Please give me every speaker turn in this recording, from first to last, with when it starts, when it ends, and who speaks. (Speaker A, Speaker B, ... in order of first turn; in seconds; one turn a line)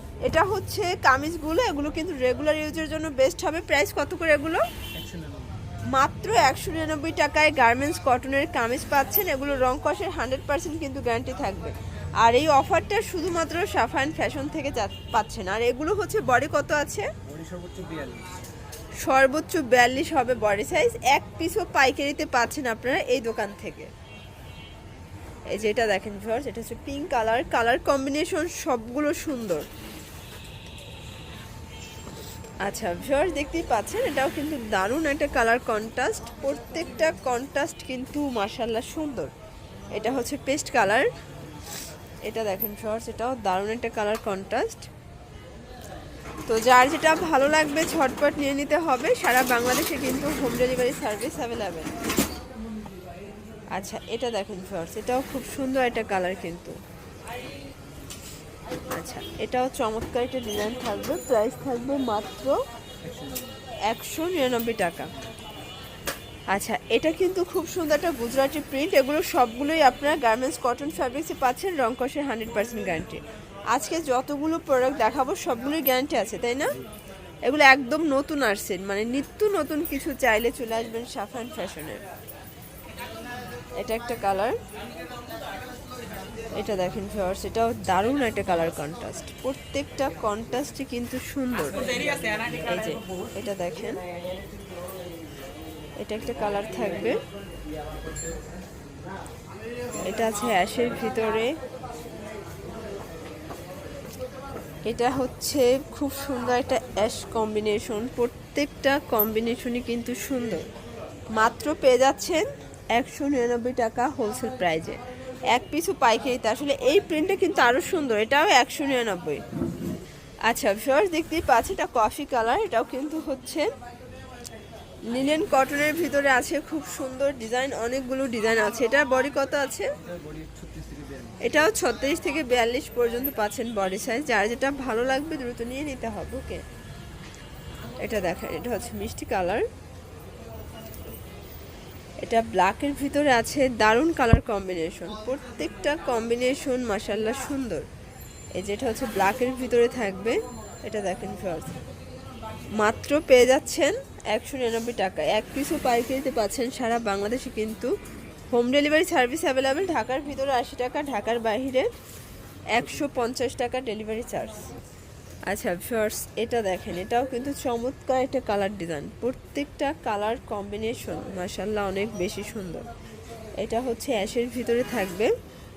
Speaker A: 0.2-4.6
Speaker B: 4.9-5.6
Speaker A: 5.9-17.1
Speaker B: 17.2-18.3
Speaker A: 19.0-23.9
Speaker A: 25.5-29.7
Speaker A: 32.6-39.3
Speaker A: 39.9-41.1
Speaker A: 42.2-44.9
Speaker A: 46.5-51.9
Speaker A: 53.7-56.8
Speaker A: 58.9-62.5
Speaker B: 63.0-63.6
Speaker A: 63.9-65.1
Speaker A: 66.5-76.8
Speaker A: 77.4-82.0
Speaker A: 83.8-84.6
Speaker A: 86.5-94.0
Speaker A: 96.0-97.2
Speaker A: 100.0-101.5
Speaker A: 104.8-110.7
Speaker A: 111.3-119.4
Speaker A: 120.5-123.7
Speaker A: 125.1-129.9
Speaker B: 130.0-131.4
Speaker A: 131.4-136.6
Speaker A: 138.0-139.7
Speaker A: 142.2-147.9
Speaker A: 148.5-151.8
Speaker A: 152.8-157.9
Speaker A: 158.5-161.9
Speaker A: 162.7-164.7
Speaker A: 165.5-172.8
Speaker A: 173.6-175.3